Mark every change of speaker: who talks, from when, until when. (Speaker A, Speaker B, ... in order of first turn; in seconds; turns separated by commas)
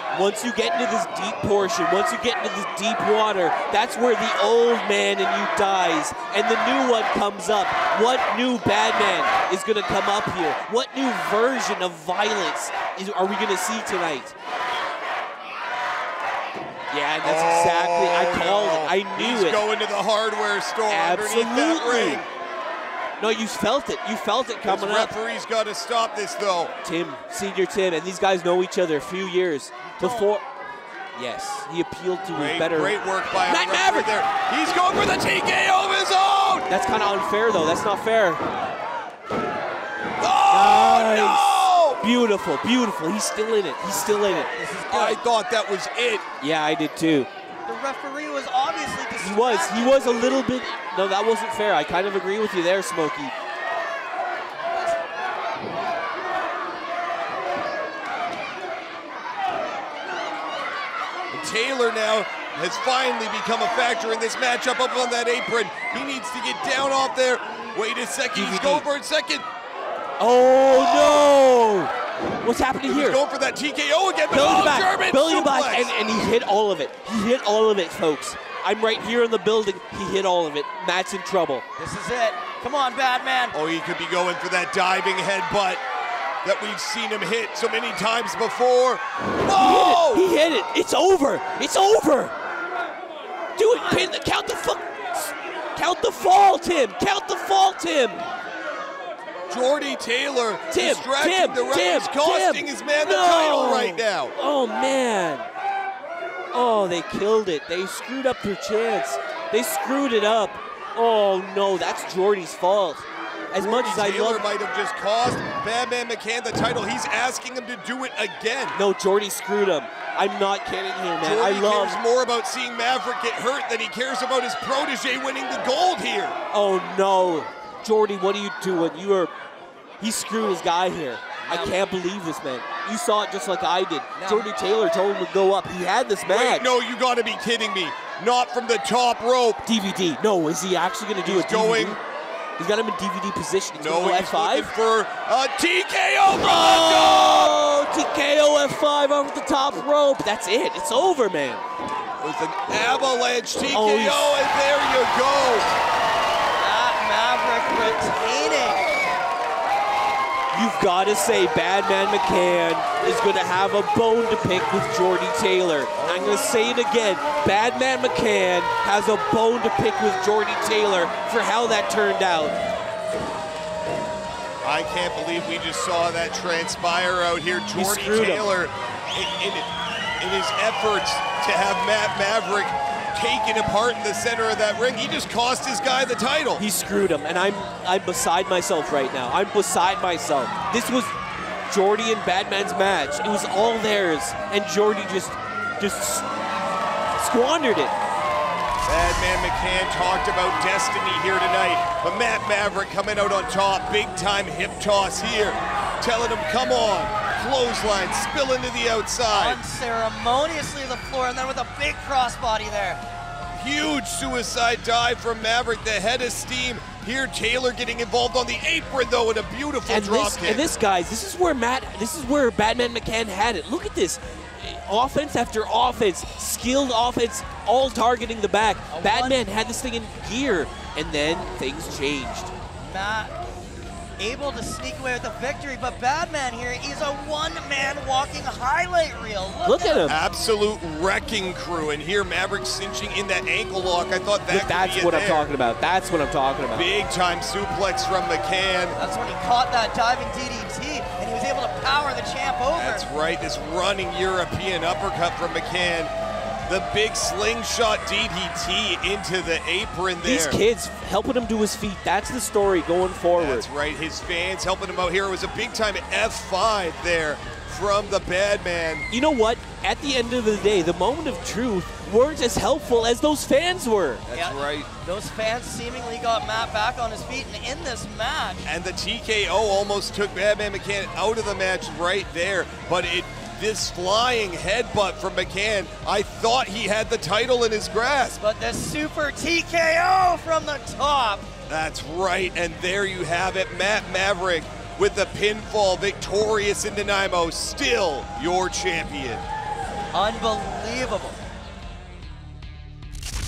Speaker A: 0.1-14.3, Speaker A: 16.9-19.6, Speaker B: 17.2-22.3, Speaker A: 20.9-22.2, Speaker A: 23.2-25.1, Speaker B: 24.6-26.7, Speaker A: 26.8-30.4, Speaker C: 29.8-30.3, Speaker A: 31.1-34.1, Speaker B: 32.3-36.7, Speaker A: 36.7-38.4, Speaker B: 40.2-42.0, Speaker A: 40.5-44.5, Speaker C: 43.9-45.2, Speaker B: 44.9-46.2, Speaker A: 46.4-47.3, Speaker C: 47.6-50.4, Speaker A: 49.2-53.3, Speaker B: 61.3-69.4, Speaker A: 68.3-68.8, Speaker A: 70.2-73.2, Speaker B: 72.8-75.9, Speaker A: 74.3-81.6, Speaker C: 81.8-83.5, Speaker B: 83.5-85.8, Speaker B: 86.4-90.2, Speaker A: 89.5-92.3, Speaker A: 93.5-98.2, Speaker C: 93.8-94.1, Speaker B: 99.5-104.3, Speaker A: 100.7-105.5, Speaker A: 106.5-114.4, Speaker B: 113.6-118.8, Speaker A: 118.7-122.0, Speaker B: 121.2-126.4, Speaker A: 126.5-129.3, Speaker A: 130.0-136.7, Speaker C: 131.4-131.8, Speaker C: 134.2-134.5, Speaker B: 136.3-139.6, Speaker A: 139.6-142.0, Speaker B: 141.2-142.0, Speaker A: 142.6-144.7, Speaker B: 143.8-147.6, Speaker A: 146.3-151.6, Speaker B: 152.2-155.7, Speaker A: 153.7-154.3, Speaker C: 156.6-158.9, Speaker A: 160.5-172.6, Speaker C: 166.0-166.4, Speaker B: 174.6-179.7, Speaker A: 177.7-178.5, Speaker B: 180.2-186.6, Speaker A: 186.6-191.1, Speaker A: 191.7-196.3, Speaker A: 197.2-197.9, Speaker B: 198.8-209.6, Speaker C: 209.3-213.0, Speaker B: 213.5-220.6, Speaker A: 219.9-232.5, Speaker C: 228.9-229.4, Speaker C: 232.8-233.3, Speaker C: 234.2-240.2, Speaker A: 239.6-240.2, Speaker B: 240.1-245.5, Speaker A: 244.5-246.9, Speaker B: 246.7-249.0, Speaker C: 249.0-253.1, Speaker B: 252.7-256.1, Speaker B: 256.7-260.6, Speaker A: 260.2-263.7, Speaker B: 263.4-269.1, Speaker A: 269.1-274.2, Speaker B: 274.3-274.9, Speaker C: 274.3-278.6, Speaker B: 278.6-288.4, Speaker C: 288.4-291.5, Speaker B: 291.7-299.4, Speaker C: 300.1-301.4